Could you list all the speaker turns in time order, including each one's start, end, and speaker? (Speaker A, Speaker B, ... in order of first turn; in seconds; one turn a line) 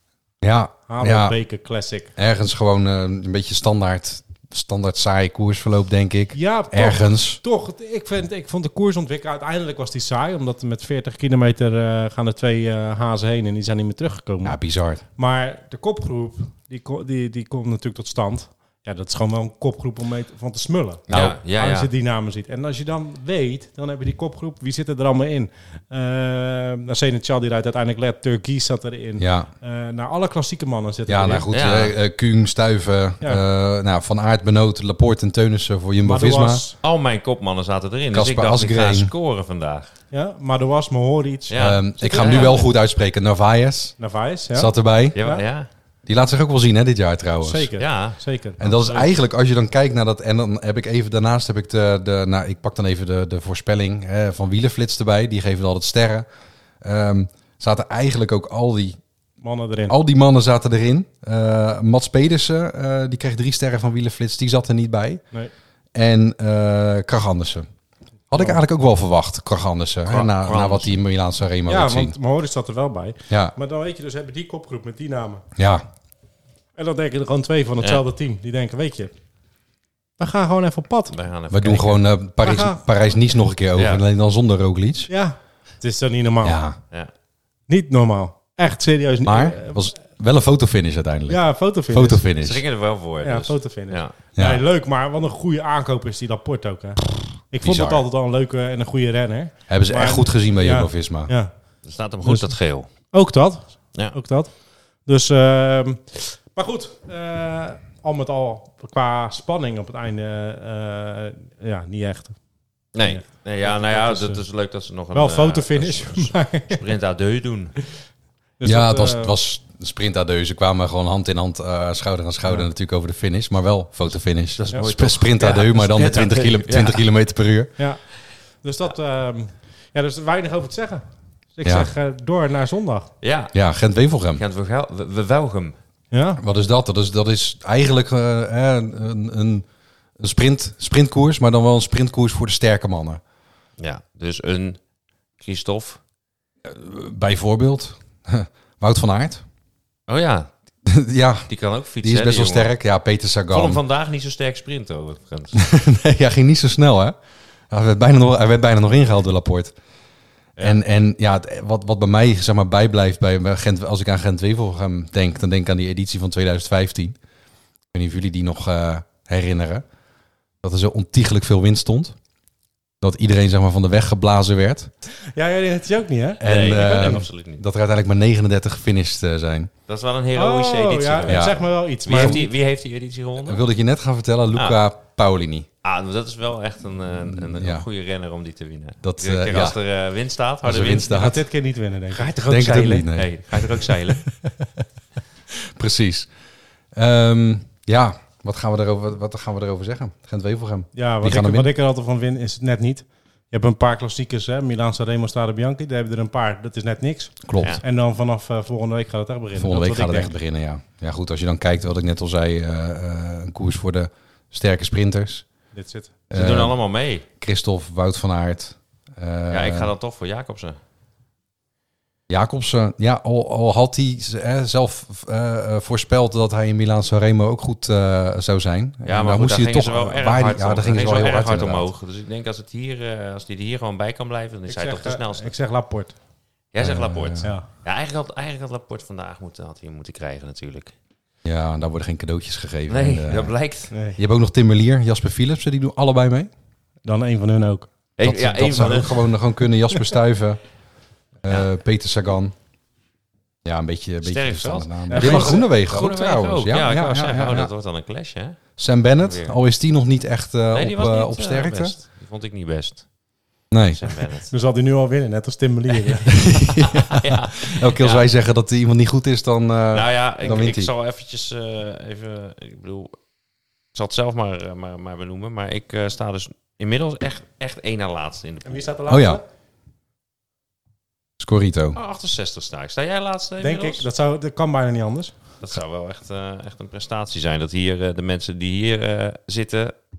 Speaker A: 0.4-1.4
Speaker B: 0.9-2.1
Speaker A: 2.1-7.4
Speaker B: 6.3-14.6
Speaker A: 14.4-15.0
Speaker B: 15.2-31.5
Speaker A: 21.1-21.4
Speaker C: 21.1-21.9
Speaker A: 29.2-29.5
Speaker A: 31.1-36.6
Speaker C: 31.5-32.0
Speaker B: 36.0-36.8
Speaker C: 36.8-39.9
Speaker A: 38.1-39.1
Speaker B: 40.1-42.7
Speaker C: 41.5-42.6
Speaker A: 41.6-44.0
Speaker B: 44.0-45.4
Speaker A: 44.5-45.2
Speaker C: 45.1-45.7
Speaker A: 46.0-47.7
Speaker B: 47.4-49.1
Speaker C: 47.8-48.2
Speaker A: 48.6-56.2
Speaker A: 56.8-59.0
Speaker B: 59.4-59.9
Speaker A: 59.9-65.2
Speaker A: 65.9-67.7
Speaker A: 68.3-72.2
Speaker B: 68.3-68.6
Speaker C: 70.0-71.0
Speaker B: 71.7-75.4
Speaker A: 73.3-73.5
Speaker A: 75.5-75.8
Speaker B: 76.8-79.1
Speaker B: 80.2-81.2
Speaker C: 81.1-82.0
Speaker A: 81.5-85.1
Speaker B: 82.4-82.8
Speaker C: 83.7-84.0
Speaker B: 85.1-86.6
Speaker A: 86.4-86.8
Speaker B: 87.7-89.8
Speaker A: 89.2-92.6
Speaker B: 91.3-92.3
Speaker C: 92.4-94.1
Speaker B: 93.2-101.5
Speaker A: 94.3-94.6
Speaker A: 97.6-98.0
Speaker A: 99.7-101.3
Speaker C: 101.8-102.9
Speaker B: 102.2-102.5
Speaker B: 103.1-104.5
Speaker B: 105.0-112.3
Speaker C: 112.9-117.8
Speaker B: 113.0-114.4
Speaker B: 115.1-116.9
Speaker B: 118.6-119.3
Speaker A: 118.6-127.7
Speaker C: 124.5-127.0
Speaker B: 128.6-131.0
Speaker B: 131.5-133.1
Speaker C: 133.2-133.5
Speaker A: 133.5-134.4
Speaker C: 134.3-135.8
Speaker B: 136.1-136.4
Speaker A: 136.4-139.7
Speaker A: 140.2-143.2
Speaker C: 143.8-144.8
Speaker C: 145.4-146.0
Speaker A: 146.6-149.4
Speaker C: 150.1-150.5
Speaker A: 150.8-151.5
Speaker C: 151.5-152.8
Speaker A: 152.0-153.8
Speaker C: 153.5-155.6
Speaker A: 155.6-157.1
Speaker A: 157.7-159.7
Speaker C: 160.6-160.8
Speaker A: 160.6-167.1
Speaker A: 167.9-169.8
Speaker A: 170.6-172.2
Speaker A: 173.0-174.9
Speaker B: 175.3-176.4
Speaker C: 176.4-177.6
Speaker A: 176.4-179.7
Speaker C: 179.9-183.6
Speaker B: 180.3-182.5
Speaker A: 181.3-182.4
Speaker A: 183.4-185.7
Speaker C: 184.5-184.8
Speaker C: 185.8-191.4
Speaker A: 187.3-187.8
Speaker A: 189.0-189.8
Speaker A: 190.6-191.4
Speaker B: 191.1-192.3
Speaker C: 192.1-194.3
Speaker A: 192.4-194.7
Speaker A: 195.8-196.3
Speaker A: 196.9-201.7
Speaker B: 200.9-210.3
Speaker A: 207.4-207.8
Speaker A: 209.6-215.4
Speaker B: 215.7-216.2
Speaker A: 216.3-216.8
Speaker C: 216.3-217.2
Speaker A: 217.4-219.9
Speaker C: 219.5-220.8
Speaker A: 222.3-231.9
Speaker C: 229.0-235.5
Speaker B: 234.7-236.1
Speaker C: 236.7-240.9
Speaker A: 236.8-237.5
Speaker A: 241.4-243.6
Speaker C: 242.9-243.9
Speaker B: 243.9-244.2
Speaker A: 244.2-246.5
Speaker B: 247.0-247.9
Speaker C: 248.2-249.3
Speaker A: 248.2-250.6
Speaker B: 248.5-249.3
Speaker A: 251.4-252.5
Speaker A: 253.6-257.7
Speaker C: 254.2-259.6
Speaker B: 255.1-255.8
Speaker A: 258.8-261.9
Speaker C: 260.7-263.1
Speaker A: 263.7-264.0
Speaker C: 263.9-264.5
Speaker B: 264.5-266.5
Speaker C: 265.9-268.3
Speaker A: 266.3-270.9
Speaker C: 269.9-273.1
Speaker C: 273.9-278.8
Speaker B: 278.6-279.4
Speaker A: 279.1-279.4
Speaker A: 281.4-282.0
Speaker C: 281.9-284.1
Speaker B: 283.6-285.3
Speaker C: 285.6-289.9